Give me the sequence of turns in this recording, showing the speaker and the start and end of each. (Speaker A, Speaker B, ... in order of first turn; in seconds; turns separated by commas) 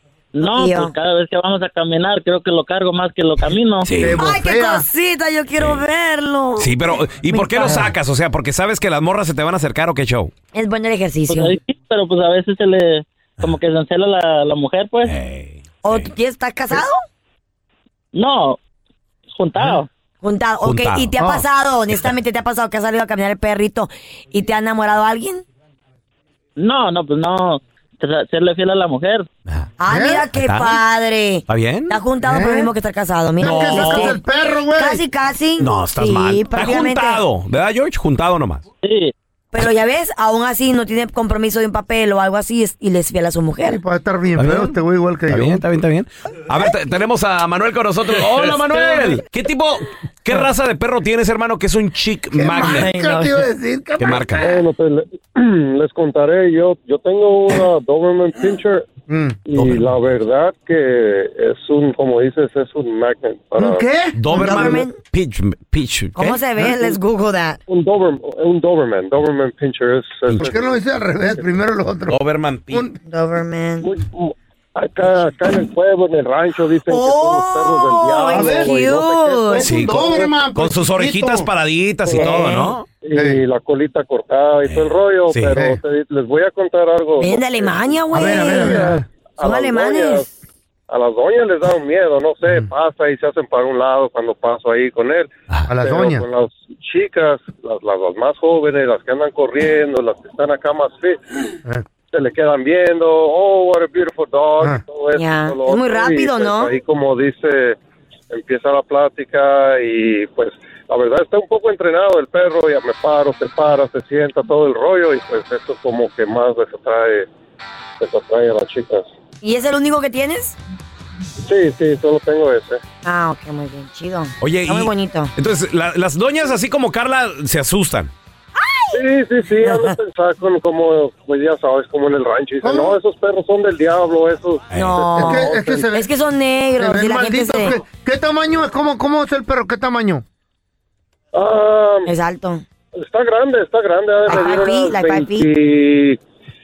Speaker A: 0.3-3.9, Speaker B: 0.4-0.9, Speaker C: 3.8-4.2, Speaker D: 4.0-4.8, Speaker B: 4.1-6.7, Speaker C: 5.6-5.8, Speaker C: 6.6-10.3, Speaker B: 7.3-7.9, Speaker B: 10.5-11.5, Speaker A: 11.3-15.2, Speaker C: 15.0-16.1, Speaker B: 15.8-17.0, Speaker A: 18.1-18.6, Speaker A: 19.4-19.9, Speaker B: 20.2-25.4, Speaker C: 20.6-21.1, Speaker D: 21.2-21.4, Speaker A: 26.6-29.3, Speaker B: 29.8-37.2, Speaker D: 29.9-30.2, Speaker C: 30.3-30.8, Speaker C: 31.5-32.0, Speaker D: 32.2-32.7, Speaker D: 33.4-35.0, Speaker C: 33.4-34.2, Speaker C: 35.6-38.6, Speaker A: 38.8-39.1, Speaker B: 39.5-43.8, Speaker D: 43.6-45.6, Speaker C: 44.4-44.8, Speaker C: 45.3-52.9, Speaker D: 48.4-49.2, Speaker D: 52.3-54.6, Speaker B: 52.5-53.4, Speaker C: 54.0-54.5, Speaker E: 54.4-58.9, Speaker D: 59.1-59.4, Speaker E: 59.5-63.8, Speaker C: 59.5-59.9, Speaker D: 63.6-64.8, Speaker C: 64.2-66.4, Speaker B: 64.3-64.9, Speaker B: 66.2-67.6, Speaker E: 67.7-70.8, Speaker D: 70.4-72.2, Speaker C: 72.1-72.9, Speaker D: 72.7-73.0, Speaker B: 73.0-73.9, Speaker E: 73.8-80.3, Speaker B: 76.9-79.7, Speaker D: 78.3-78.8, Speaker D: 79.3-81.5, Speaker C: 79.6-82.8, Speaker B: 82.2-82.7, Speaker E: 83.0-90.3, Speaker D: 83.1-83.4, Speaker C: 84.6-85.6, Speaker B: 87.2-90.3, Speaker D: 88.1-89.0, Speaker E: 90.9-95.3, Speaker D: 95.7-96.2, Speaker E: 95.8-101.2, Speaker E: 102.1-107.8, Speaker B: 105.1-106.7, Speaker E: 108.3-117.3, Speaker E: 118.0-119.1, Speaker B: 119.4-120.5, Speaker E: 121.4-122.8, Speaker B: 123.0-125.3, Speaker C: 124.4-128.1, Speaker B: 128.6-129.0, Speaker E: 128.9-135.9, Speaker B: 129.6-129.9, Speaker D: 132.6-133.0, Speaker C: 134.7-135.0, Speaker B: 134.7-137.8, Speaker D: 135.1-136.1, Speaker D: 136.7-140.2, Speaker E: 141.3-142.1, Speaker B: 142.1-142.6, Speaker E: 143.0-146.2, Speaker B: 144.2-145.5